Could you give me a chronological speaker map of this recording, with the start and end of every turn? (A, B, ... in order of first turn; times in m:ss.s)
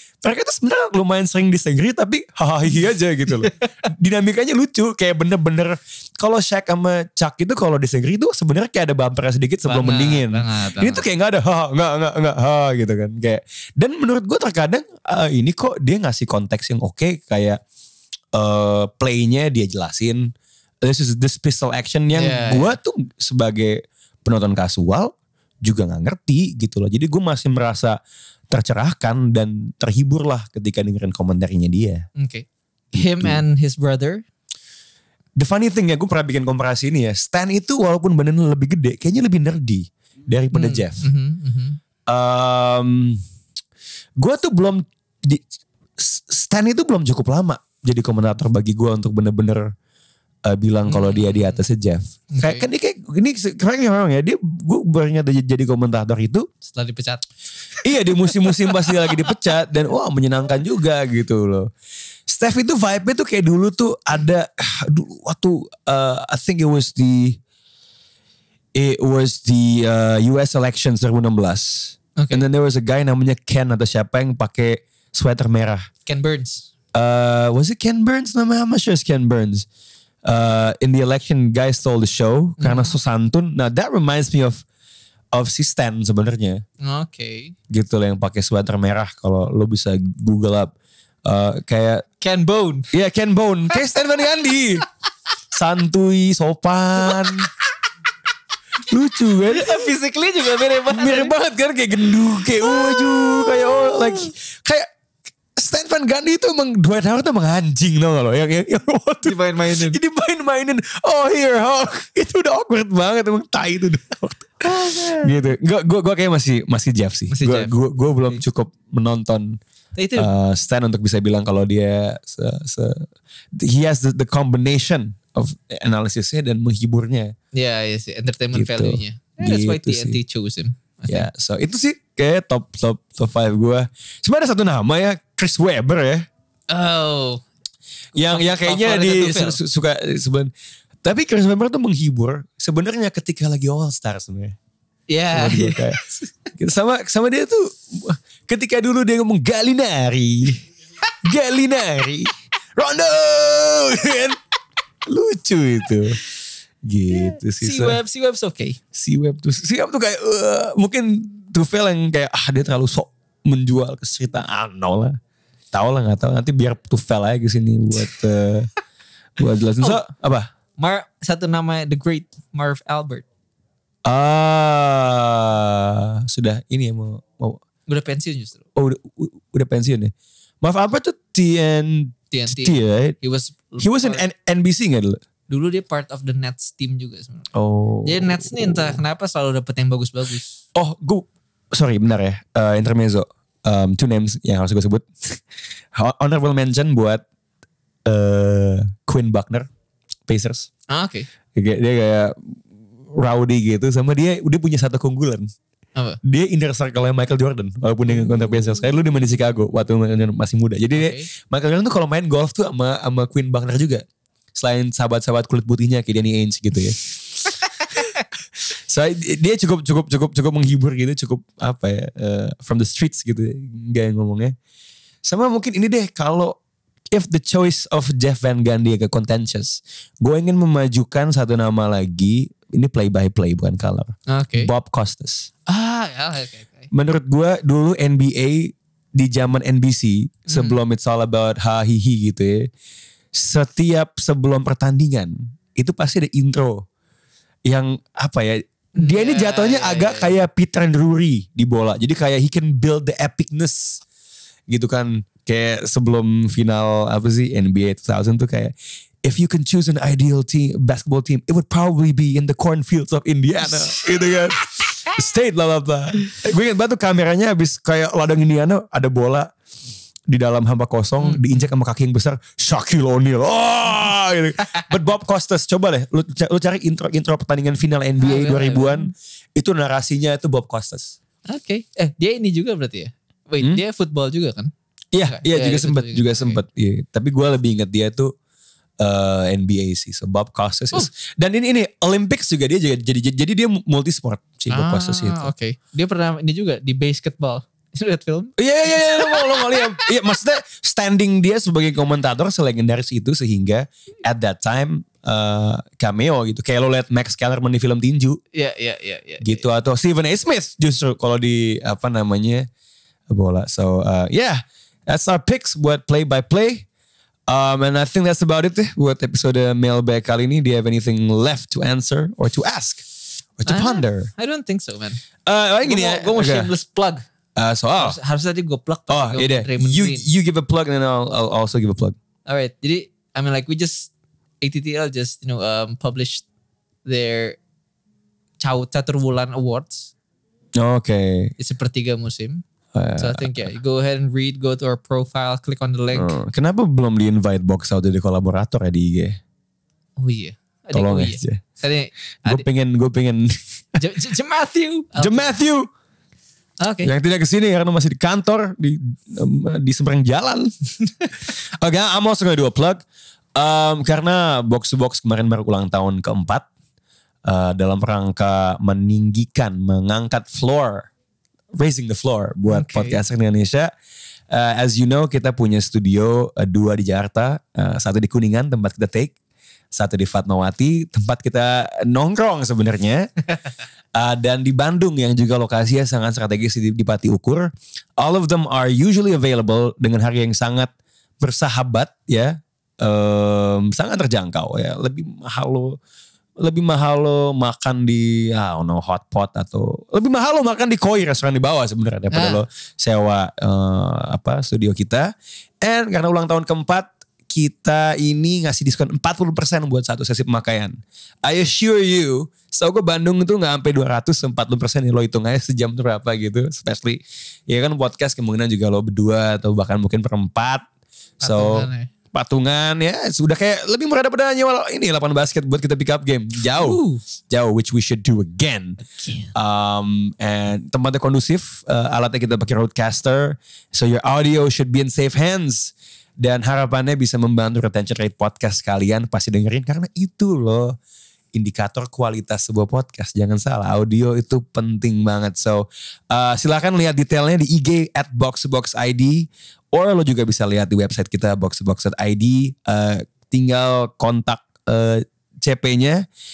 0:00.2-0:17.6 A
0:09.6-0:11.0 B
0:18.3-0:20.3 A
0:20.8-0:32.0 A
0:22.1-0:22.8 B
0:32.2-0:34.2 B
0:35.4-0:41.1 A
0:40.5-0:41.8 B
0:42.1-0:43.2 A
0:44.2-0:45.4 A
0:46.0-0:49.7 A
0:50.4-0:56.5 A
0:50.9-0:51.6 B
0:52.3-0:52.7 B
0:56.6-0:57.2 B
0:57.8-1:01.7 A
0:58.4-0:59.1 B
1:02.3-1:07.4 A
1:08.7-1:15.9 A
1:12.2-1:12.4 B
1:16.1-1:16.7 B
1:16.9-1:19.7 A
1:20.2-1:24.6 A
1:22.6-1:22.9 B
1:25.3-1:26.6 A
1:26.8-1:27.6 B
1:27.7-1:30.7 A
1:31.2-1:32.0 A
1:32.2-1:32.9 B
1:32.9-1:34.8 A
1:35.5-1:37.5 A
1:38.9-1:39.9 A
1:39.5-1:41.3 B
1:40.9-1:44.9 A
1:42.9-1:44.0 B
1:45.6-1:59.6 A
1:49.2-1:50.0 B
1:54.6-1:55.3 B
1:57.3-1:57.7 B
2:00.0-2:00.3 B
2:00.2-2:07.3 A
2:07.5-2:11.3 B
2:08.5-2:10.2 A
2:11.1-2:16.3 A
2:16.7-2:17.4 B
2:18.2-2:19.6 B
2:18.2-2:20.5 A
2:21.0-2:24.6 A
2:25.1-2:26.3 B
2:25.3-2:26.0 A
2:26.6-2:30.6 A
2:31.2-2:34.4 A
2:35.1-2:36.2 A
2:36.8-2:38.0 A
2:37.1-2:38.8 B
2:38.9-2:45.2 A
2:45.7-2:48.7 A
2:49.4-2:50.5 A
2:50.8-2:53.2 B
2:54.0-2:57.6 A
2:57.9-2:58.6 B
2:58.8-3:03.2 A
3:02.3-3:04.2 B
3:03.8-3:05.2 A
3:05.5-3:07.5 B
3:07.5-3:09.0 A
3:08.0-3:10.6 B
3:10.8-3:15.4 A
3:15.9-3:17.2 A
3:18.0-3:19.7 A
3:20.3-3:20.7 A
3:20.9-3:21.3 B
3:21.5-3:22.4 A
3:23.1-3:25.5 A
3:26.2-3:37.7 A
3:30.9-3:31.3 B
3:38.7-3:44.6 A
3:45.2-3:46.6 A
3:47.1-3:55.5 A
3:54.3-3:54.7 B
3:55.7-3:56.9 B
3:56.9-4:02.7 A
4:00.5-4:00.8 B
4:03.3-4:06.9 A
4:07.6-4:14.0 A
4:09.0-4:10.4 B
4:14.7-4:29.5 A
4:23.8-4:24.4 B
4:30.3-4:41.2 A
4:31.2-4:31.7 B
4:38.2-4:39.1 B
4:41.5-4:44.7 B
4:45.1-4:48.3 A
4:45.3-4:46.6 B
4:49.0-4:55.5 A
4:54.7-5:00.0 B
4:58.6-5:08.4 A
5:08.5-5:09.6 B
5:09.4-5:12.7 A
5:13.3-5:16.9 A
5:17.5-5:23.0 A
5:23.6-5:24.3 A
5:23.7-5:25.2 B
5:25.4-5:26.7 A
5:25.8-5:27.2 B
5:27.6-5:28.2 A
5:28.0-5:30.3 B
5:29.1-5:32.2 A
5:32.5-5:34.1 B
5:34.6-5:36.4 B
5:37.0-5:37.6 B
5:38.6-5:40.1 B
5:40.8-5:41.5 A
5:41.6-5:42.6 B
5:42.9-5:43.7 A
5:43.2-5:46.4 B
5:46.2-5:49.4 A
5:50.2-5:52.6 B
5:50.9-5:51.6 A
5:52.4-5:54.0 A
5:54.0-5:55.5 B
5:55.2-5:55.9 A
5:56.8-5:57.1 B
5:57.0-6:00.7 A
6:01.4-6:03.0 A
6:03.6-6:06.7 A
6:07.4-6:11.1 A
6:11.7-6:13.9 A
6:12.7-6:13.2 B
6:14.5-6:19.4 A
6:19.9-6:23.3 A
6:24.2-6:36.0 A
6:36.6-7:00.9 A
6:42.3-6:42.6 B
7:01.4-7:02.1 B
7:01.4-7:09.0 A
7:06.7-7:07.2 B
7:09.1-7:09.5 B
7:09.5-7:21.0 A
7:21.5-7:36.2 A